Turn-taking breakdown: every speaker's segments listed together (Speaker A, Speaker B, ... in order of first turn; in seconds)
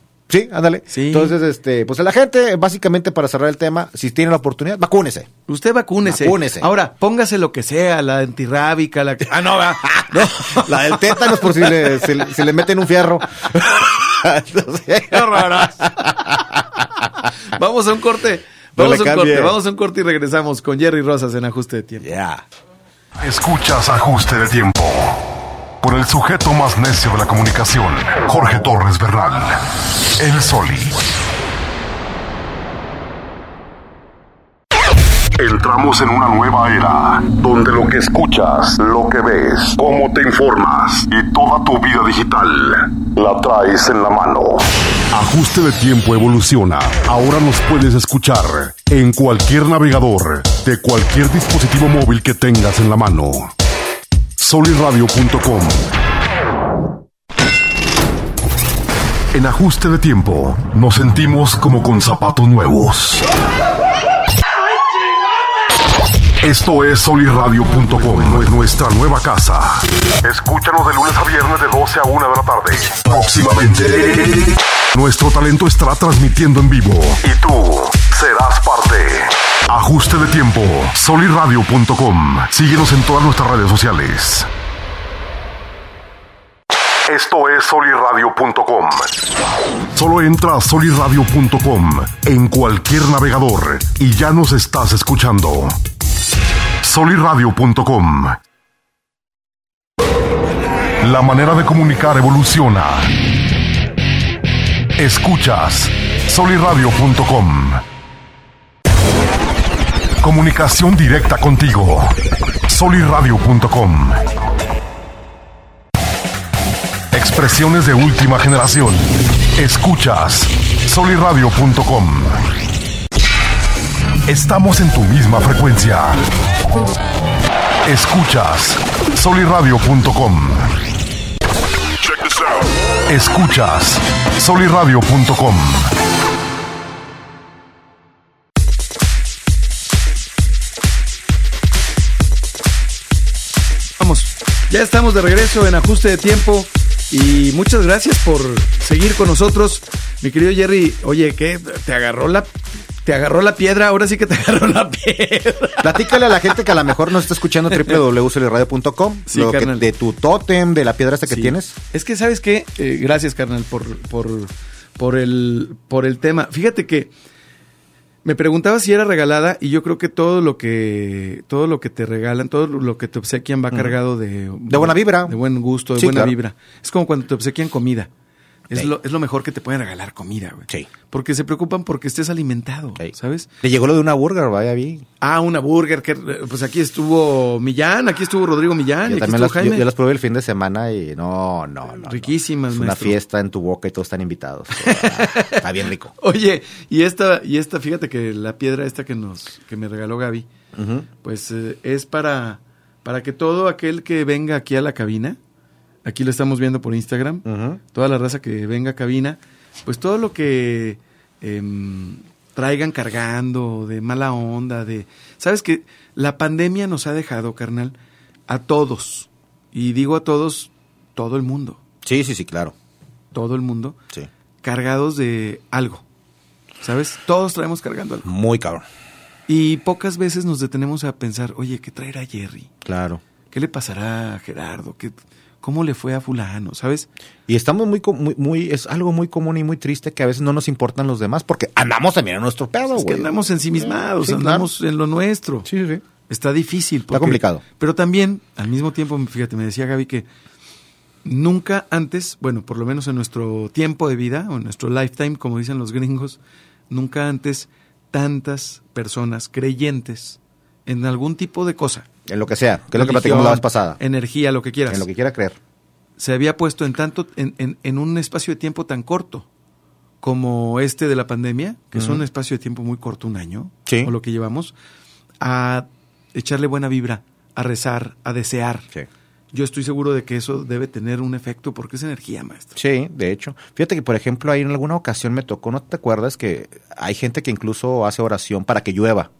Speaker A: 0.3-5.3, 6.0-6.7, 9.8-17.1, 18.8-19.6, 22.0-22.4, 155.8-161.7, 174.7-175.4, 175.9-176.3, 183.6-185.0, 189.0-196.1, 200.7-201.1, 207.4-207.8, 222.0-222.7, 228.2-228.8, 232.8-233.2, 237.5-244.7, 245.7-246.0, 247.1-247.6, 262.3-264.0, 264.9-265.6, 271.9-272.2, 273.9-274.1, 282.8-289.3
Speaker B: 0.9-1.4, 5.5-12.0, 15.1-16.6, 17.2-22.1, 144.0-152.5, 153.0-156.7, 157.7-158.0, 159.3-159.9, 161.3-167.1, 168.2-178.1, 178.7-183.5, 185.2-189.9, 192.0-193.2, 194.7-195.6, 196.2-200.5, 201.2-205.4, 206.0-217.9, 218.5-221.8, 223.3-224.0, 224.6-226.0, 226.8-228.3, 229.5-232.7, 233.5-237.1, 242.9-245.7, 246.3-250.2, 251.2-256.4, 256.9-262.1, 262.9-265.1, 266.2-269.4, 270.2-274.7, 275.4-278.9, 279.5-282.7
Speaker C: 23.2-25.2, 25.8-29.6, 30.2-31.0, 35.4-53.5, 54.4-55.8, 59.3-63.3, 66.4-84.5, 87.1-89.1, 89.9-95.8, 96.8-98.4, 101.0-103.1, 105.0-107.8, 110.2-112.1, 112.7-114.2, 117.1-122.4, 124.2-126.2, 127.8-130.7, 132.2-135.9